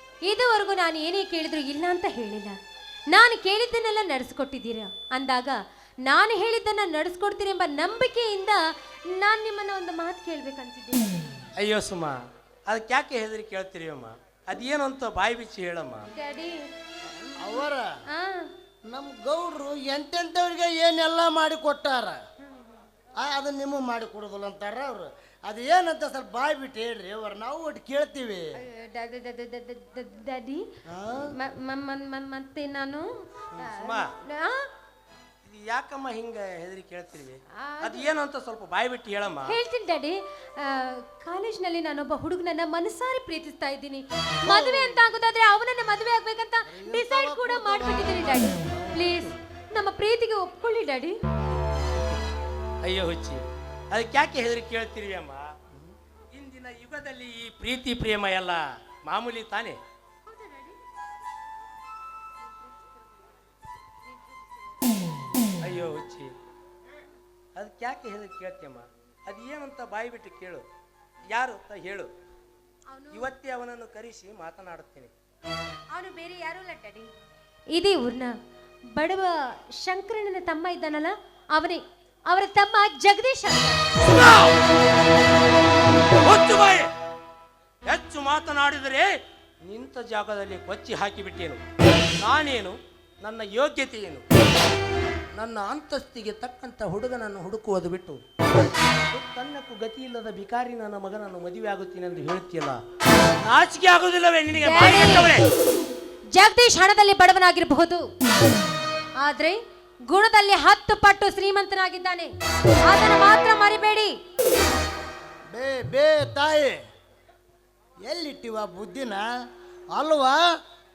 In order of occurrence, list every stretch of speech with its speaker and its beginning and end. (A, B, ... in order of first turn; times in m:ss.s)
0:00.2-0:02.6 A
0:03.1-0:08.6 A
0:09.1-0:11.2 A
0:11.6-0:12.2 B
0:12.7-0:16.1 B
0:16.1-0:16.6 A
0:17.4-0:17.8 C
0:18.1-0:18.5 A
0:18.9-0:22.2 C
0:23.2-0:28.4 C
0:28.6-0:30.7 A
0:30.9-0:31.3 C
0:31.4-0:33.1 A
0:33.6-0:34.1 B
0:33.6-0:34.6 A
0:35.5-0:39.5 B
0:37.6-0:38.1 A
0:39.5-0:51.2 A
0:44.4-0:45.0 C
0:46.7-0:49.2 C
0:52.8-0:55.5 B
0:56.3-0:59.8 B
1:00.3-1:00.8 A
1:05.6-1:06.3 B
1:07.6-1:10.6 B
1:11.3-1:12.1 B
1:12.9-1:13.3 A
1:13.1-1:15.1 B
1:15.9-1:17.1 A
1:17.7-1:18.3 A
1:18.9-1:23.8 A
1:24.1-1:24.5 B
1:26.2-1:26.9 B
1:27.9-1:29.1 B
1:29.6-1:31.6 B
1:32.2-1:34.2 B
1:35.4-1:38.2 B
1:39.1-1:42.8 B
1:43.4-1:45.5 B
1:44.6-1:45.3 A
1:46.3-1:48.1 A
1:49.2-1:49.6 A
1:50.1-1:54.1 A
1:55.5-1:56.8 C
1:58.0-1:59.2 C
1:59.9-2:00.4 C